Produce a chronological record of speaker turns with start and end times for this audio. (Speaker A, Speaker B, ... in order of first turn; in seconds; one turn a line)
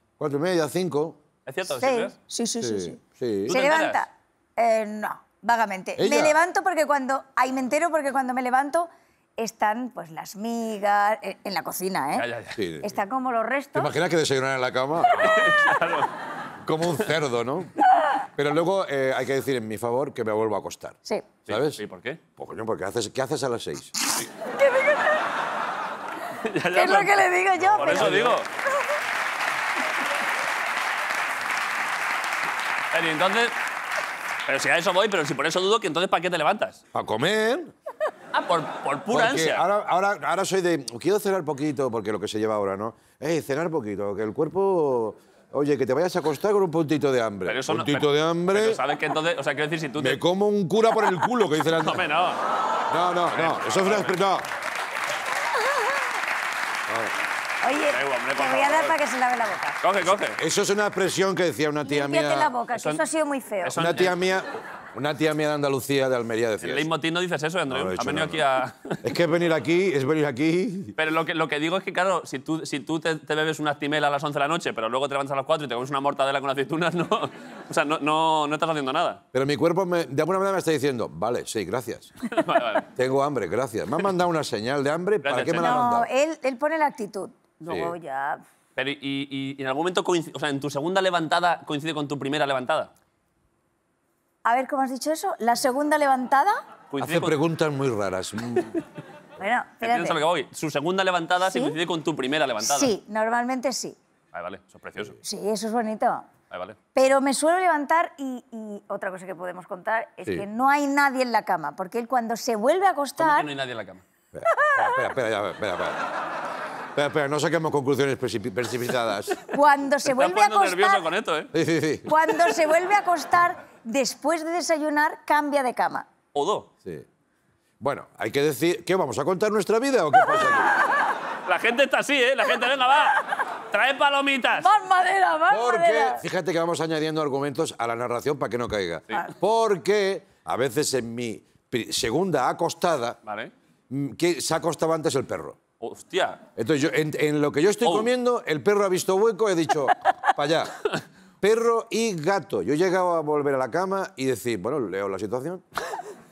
Speaker A: 0.2-1.2
Speaker B: 1.4-2.1
Speaker C: 1.7-12.2
Speaker A: 2.6-3.6
Speaker B: 3.4-4.0
Speaker A: 6.0-6.4
Speaker B: 12.1-12.6
Speaker A: 12.6-13.0
Speaker C: 12.8-13.9
Speaker A: 13.7-15.5
Speaker B: 15.0-16.1
Speaker A: 16.6-17.7
Speaker A: 18.4-21.8
Speaker B: 21.4-22.2
Speaker A: 22.4-23.9
Speaker C: 24.4-25.2
Speaker B: 26.4-27.2
Speaker C: 26.7-28.4
Speaker A: 27.6-28.4
Speaker B: 27.7-28.5
Speaker B: 32.9-33.5
Speaker B: 34.4-36.8
Speaker A: 36.9-37.7
Speaker B: 38.3-39.6
Speaker A: 39.1-48.8
Speaker B: 47.5-50.2
Speaker A: 50.0-52.0
Speaker B: 51.8-52.4
Speaker A: 52.9-54.5
Speaker B: 53.3-54.2
Speaker A: 56.9-57.1
Speaker C: 57.6-59.8
Speaker B: 57.9-59.0
Speaker B: 59.8-60.4
Speaker A: 60.2-62.5
Speaker C: 61.8-63.8
Speaker B: 62.7-63.0
Speaker B: 63.6-64.2
Speaker A: 63.8-66.9
Speaker B: 66.6-69.0
Speaker A: 67.7-68.5
Speaker A: 69.0-71.0
Speaker B: 71.0-79.2
Speaker A: 79.3-82.1
Speaker B: 82.3-82.9
Speaker A: 82.9-86.1
Speaker B: 85.2-85.8
Speaker C: 85.5-88.4
Speaker A: 87.6-87.9
Speaker B: 88.8-92.9
Speaker C: 94.4-96.6
Speaker B: 96.9-97.4
Speaker A: 97.0-98.8
Speaker C: 99.4-100.2
Speaker B: 99.8-102.9
Speaker C: 101.4-101.8
Speaker C: 102.6-104.0
Speaker B: 104.3-105.2
Speaker C: 105.2-106.2
Speaker B: 106.5-106.8
Speaker C: 106.9-113.5
Speaker B: 113.2-114.0
Speaker A: 114.3-116.0
Speaker C: 114.5-115.1
Speaker A: 116.9-119.4
Speaker C: 119.5-121.0
Speaker B: 120.0-121.5
Speaker A: 121.5-122.2
Speaker C: 122.0-126.0
Speaker B: 126.3-126.7
Speaker A: 127.8-130.7
Speaker B: 131.4-134.7
Speaker C: 134.6-136.2
Speaker A: 135.5-143.2
Speaker B: 143.2-143.5
Speaker A: 143.9-145.6
Speaker B: 145.8-146.4
Speaker A: 146.6-150.8
Speaker B: 147.8-148.1
Speaker A: 151.4-155.6